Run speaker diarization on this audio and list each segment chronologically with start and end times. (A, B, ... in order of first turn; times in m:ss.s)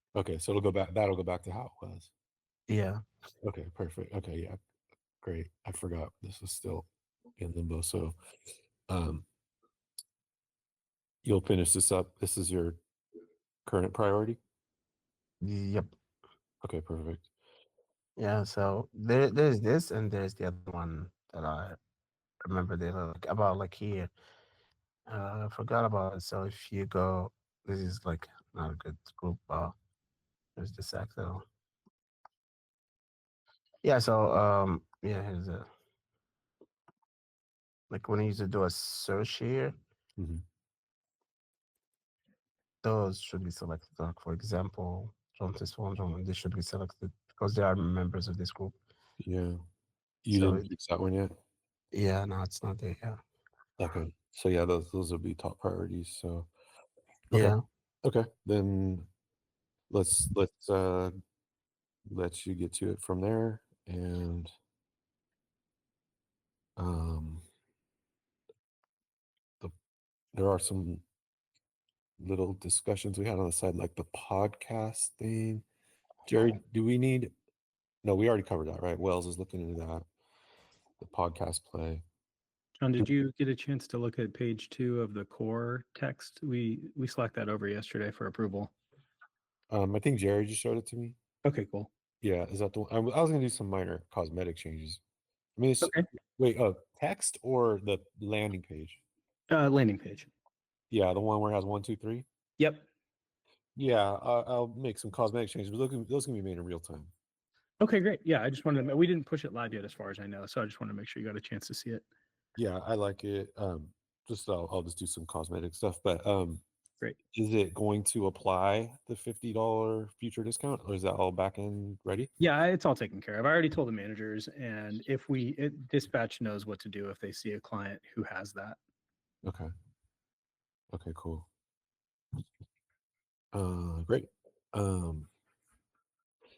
0:00.1-0:02.1 A
0:02.7-0:03.0 B
0:03.4-0:04.6 A
0:05.2-0:06.9 A
0:07.4-0:08.1 A
0:08.9-0:09.2 A
0:11.2-0:12.8 A
0:13.6-0:14.4 A
0:15.4-0:15.9 B
0:16.6-0:17.3 A
0:18.2-0:21.8 B
0:22.5-0:24.1 B
0:25.1-0:29.7 B
0:30.6-0:31.4 B
0:33.8-0:35.7 B
0:37.9-0:39.7 B
0:40.2-0:40.4 A
0:42.8-0:48.7 B
0:49.2-0:49.6 A
0:50.2-0:51.3 A
0:50.3-0:50.7 B
0:51.9-0:53.2 B
0:53.8-0:56.5 A
0:57.3-0:57.6 B
0:57.3-0:59.1 A
0:59.9-1:01.1 A
1:02.1-1:04.5 A
1:06.8-1:07.4 A
1:10.3-1:11.0 A
1:12.2-1:15.6 A
1:16.3-1:17.3 A
1:18.0-1:20.0 A
1:21.0-1:22.0 A
1:22.8-1:28.7 C
1:29.7-1:31.2 A
1:31.4-1:31.9 C
1:32.2-1:35.0 A
1:35.6-1:39.0 A
1:35.8-1:36.1 C
1:39.5-1:40.3 C
1:40.9-1:42.2 A
1:42.6-1:42.8 C
1:43.8-1:47.1 A
1:47.8-1:52.0 C
1:52.6-1:56.6 A
1:57.3-2:02.3 A
2:02.4-2:08.8 C
2:09.4-2:09.7 A
2:10.9-2:11.5 A
2:13.5-2:15.3 A